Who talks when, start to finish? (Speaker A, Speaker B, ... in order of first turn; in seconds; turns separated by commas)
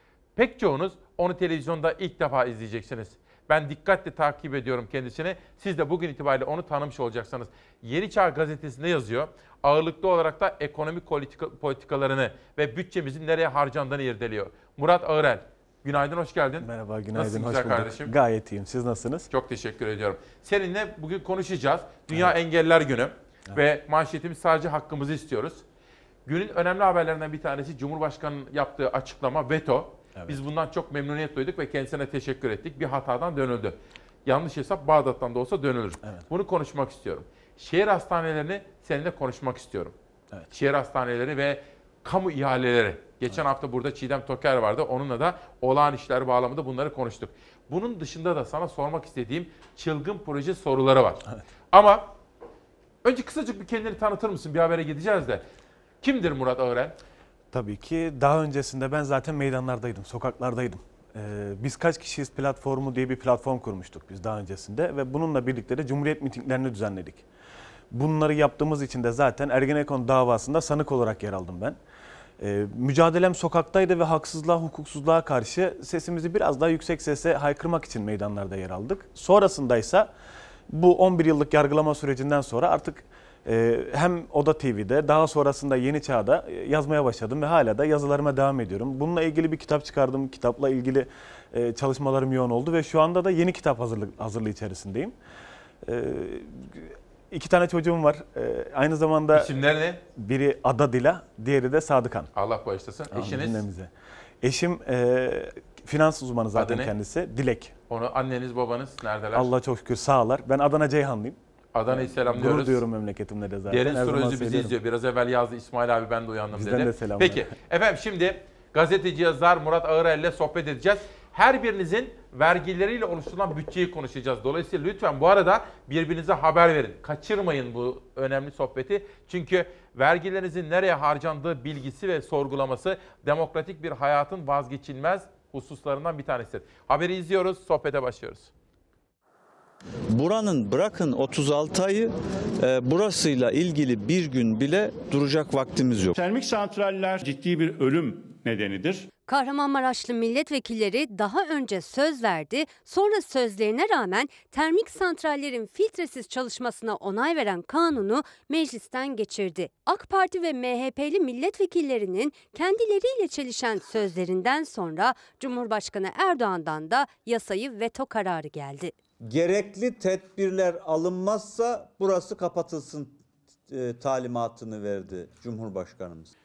Speaker A: 0.4-18.1, Speaker B: 16.6-19.3, Speaker A: 19.3-25.6, Speaker B: 22.1-22.4, Speaker A: 26.3-39.9, Speaker A: 40.5-51.2, Speaker A: 51.7-52.1, Speaker A: 53.0-55.5, Speaker A: 56.0-57.0, Speaker B: 57.5-67.2, Speaker B: 67.9-71.8, Speaker B: 72.4-80.1, Speaker B: 80.7-95.2, Speaker B: 95.9-99.5, Speaker A: 99.3-100.0, Speaker B: 100.2-102.3, Speaker A: 102.3-103.6, Speaker B: 103.1-103.9, Speaker B: 104.4-107.7, Speaker A: 106.5-106.9, Speaker A: 107.9-109.5, Speaker B: 109.3-111.4, Speaker A: 111.7-112.8, Speaker B: 111.9-114.7, Speaker A: 113.7-138.5, Speaker B: 116.5-117.5, Speaker C: 140.1-146.2, Speaker D: 146.2-149.1, Speaker E: 149.3-168.9, Speaker C: 169.2-176.3